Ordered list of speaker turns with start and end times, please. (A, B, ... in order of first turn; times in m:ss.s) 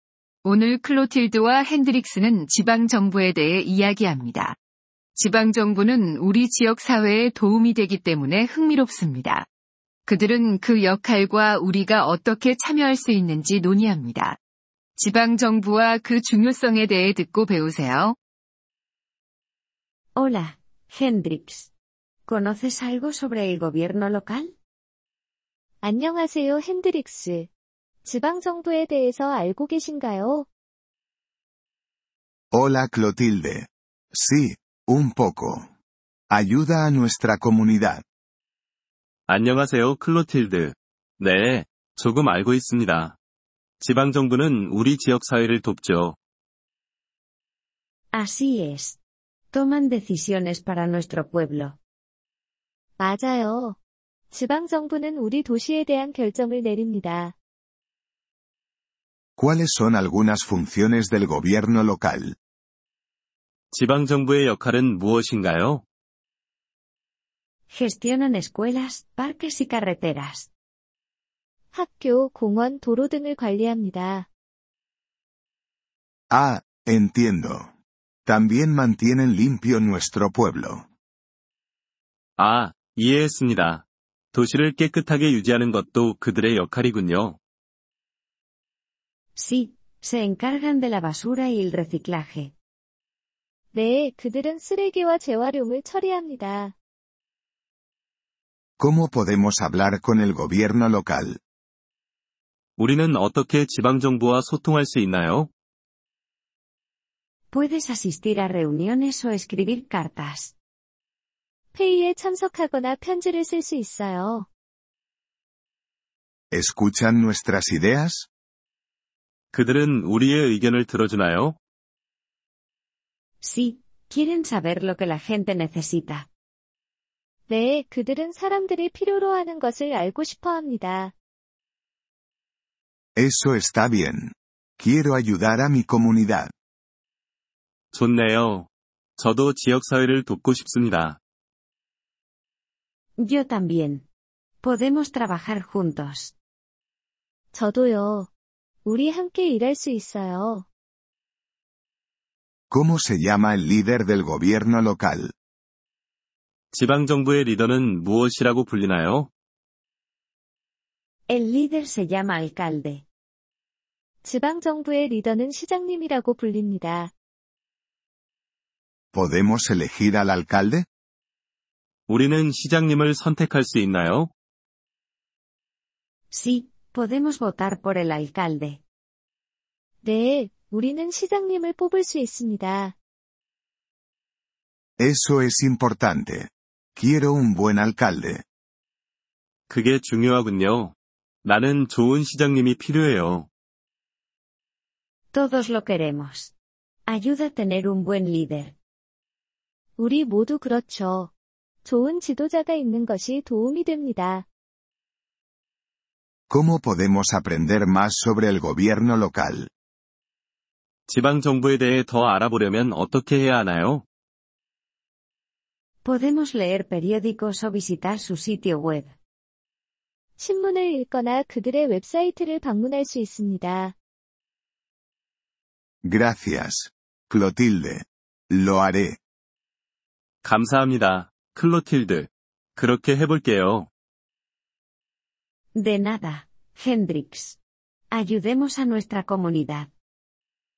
0:00.4-0:04.6 A
0:05.2-0:09.5 A
0:10.0-0:14.4 A
0:15.0-0:18.2 A
0:20.2-0:21.7 B
0:22.3-0:24.5 B
0:25.8-0:27.5 C
0:28.0-0:30.5 C
0:32.5-0:35.7 D
0:36.3-0:38.0 D
0:39.3-0:43.2 E
0:43.8-0:46.2 E
0:48.1-0:49.0 B
0:49.5-0:51.8 B
0:53.0-0:53.8 C
0:54.3-0:57.3 C
0:59.4-1:02.4 D
1:03.7-1:05.8 E
1:07.7-1:10.5 B
1:11.7-1:14.3 C
1:16.3-1:17.7 D
1:18.2-1:20.8 D
1:22.4-1:27.4 E
1:29.4-1:32.5 B
1:33.7-1:36.8 C
1:38.8-1:41.4 D
1:42.8-1:45.5 E
1:47.5-1:50.5 B
1:51.7-1:54.5 C
1:56.5-1:58.3 D
1:59.5-2:01.6 E
2:03.4-2:06.3 B
2:07.5-2:11.1 C
2:13.2-2:16.5 D
2:17.9-2:21.2 E
2:23.2-2:24.0 B
2:24.6-2:26.3 B
2:27.5-2:28.3 C
2:28.8-2:30.7 C
2:32.7-2:35.3 D
2:36.7-2:39.3 E
2:41.3-2:43.0 B
2:44.2-2:47.1 C
2:49.1-2:50.8 D
2:52.1-2:54.3 E
2:56.3-2:58.8 B
3:00.0-3:03.0 C
3:05.0-3:08.4 D
3:09.7-3:13.5 E
3:15.3-3:16.5 B
3:17.1-3:18.7 B
3:20.0-3:21.3 C
3:21.8-3:24.5 C
3:26.5-3:29.7 D
3:31.1-3:34.0 E
3:36.0-3:39.1 B
3:40.4-3:44.0 C
3:46.0-3:49.2 D
3:50.4-3:53.9 E
3:55.7-3:57.6 B
3:58.1-3:59.9 B